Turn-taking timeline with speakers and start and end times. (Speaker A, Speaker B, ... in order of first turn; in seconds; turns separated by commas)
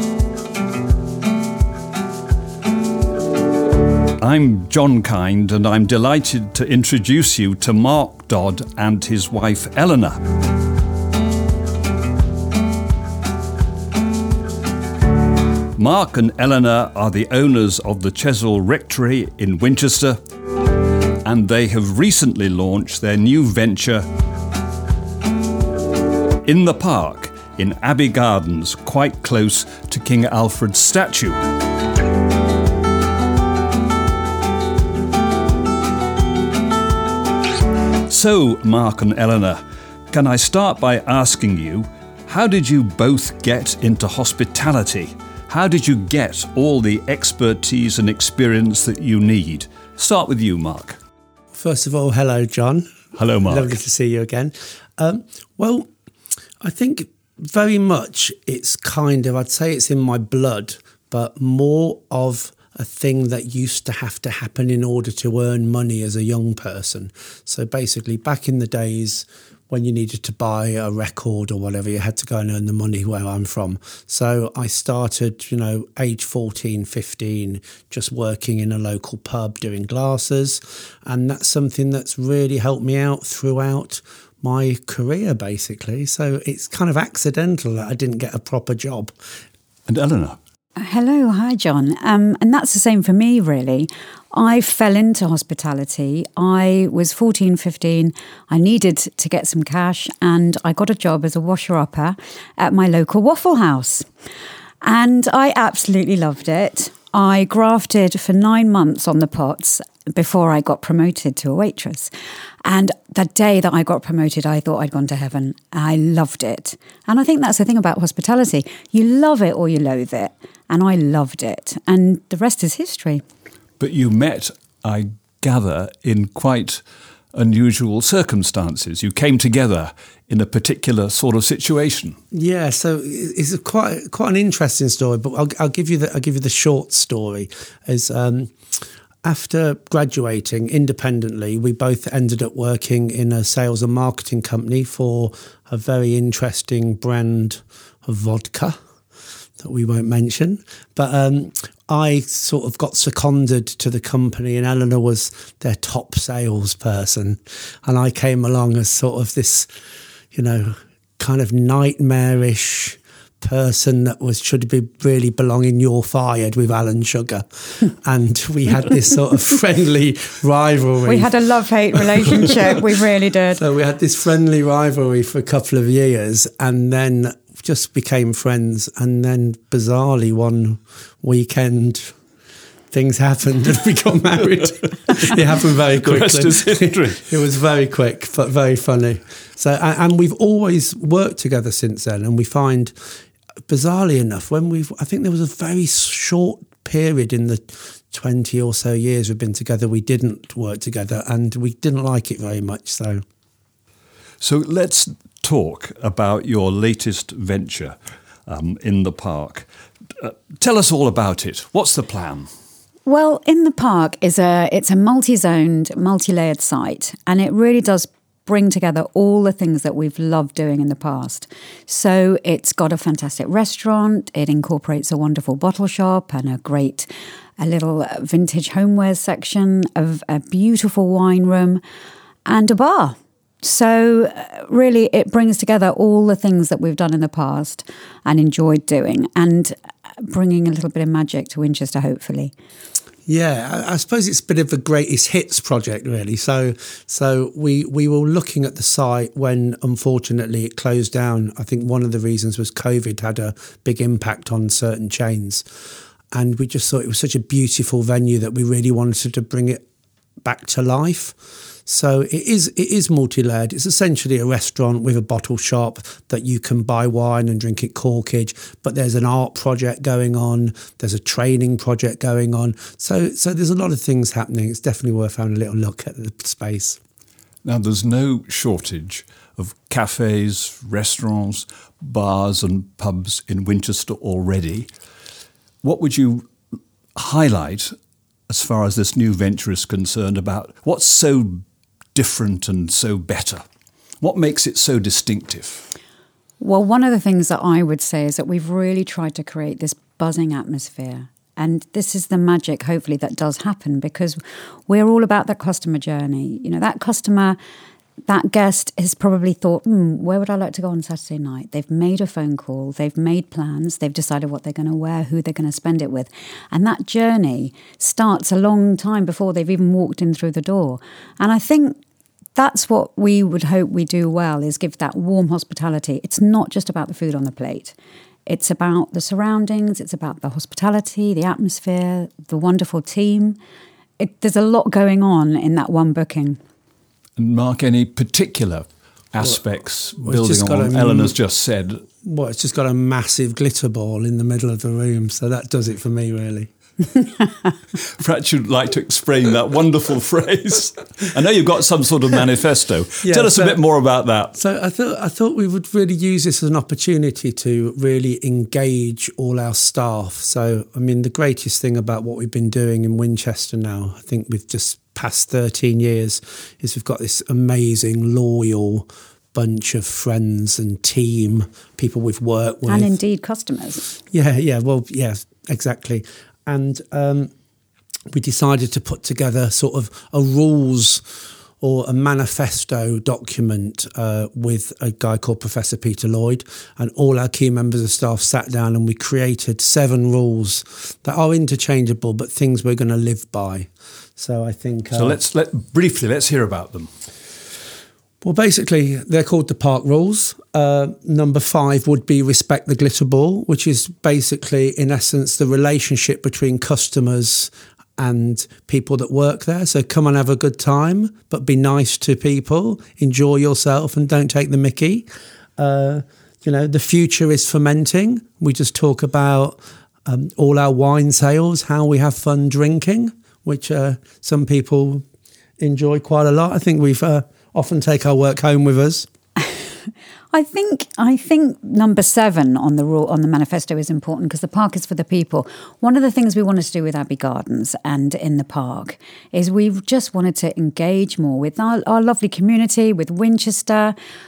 Speaker A: 4.2-10.2, Speaker A: 15.8-20.2, Speaker A: 21.2-24.1, Speaker A: 26.4-31.4, Speaker A: 38.1-39.6, Speaker A: 40.1-51.0, Speaker B: 51.5-52.9, Speaker A: 53.1-53.7, Speaker B: 53.4-55.9, Speaker B: 56.6-89.1, Speaker A: 89.9-90.4, Speaker C: 90.8-104.0, Speaker C: 104.8-112.1, Speaker C: 112.6-123.2, Speaker A: 123.8-126.8, Speaker A: 127.3-132.2, Speaker B: 132.3-138.5, Speaker B: 139.2-148.8, Speaker B: 149.6-159.7, Speaker B: 160.3-171.3, Speaker C: 171.0-173.6, Speaker B: 171.9-172.5, Speaker B: 173.6-182.1, Speaker B: 182.9-192.9, Speaker A: 185.9-187.3, Speaker B: 193.7-203.2, Speaker A: 204.4-209.7, Speaker A: 210.2-212.5, Speaker C: 213.1-231.8, Speaker C: 232.4-242.5, Speaker B: 243.3-255.6, Speaker B: 256.3-259.8, Speaker B: 260.4-277.0, Speaker A: 277.6-284.9, Speaker A: 285.8-286.5, Speaker A: 287.1-287.9, Speaker A: 288.5-291.6, Speaker A: 292.1-293.6, Speaker A: 294.2-295.9, Speaker C: 296.6-307.6, Speaker C: 308.2-322.0, Speaker C: 322.6-327.9, Speaker C: 328.4-333.6, Speaker C: 334.2-336.6, Speaker A: 337.4-342.0, Speaker B: 340.2-341.3, Speaker B: 342.2-346.7, Speaker A: 348.0-354.5, Speaker B: 353.2-353.8, Speaker B: 354.5-373.1, Speaker C: 372.9-374.0, Speaker B: 374.3-377.5, Speaker B: 378.3-381.2, Speaker B: 381.8-395.4, Speaker A: 395.1-397.1, Speaker B: 398.4-425.2, Speaker B: 425.8-429.3, Speaker C: 430.5-444.1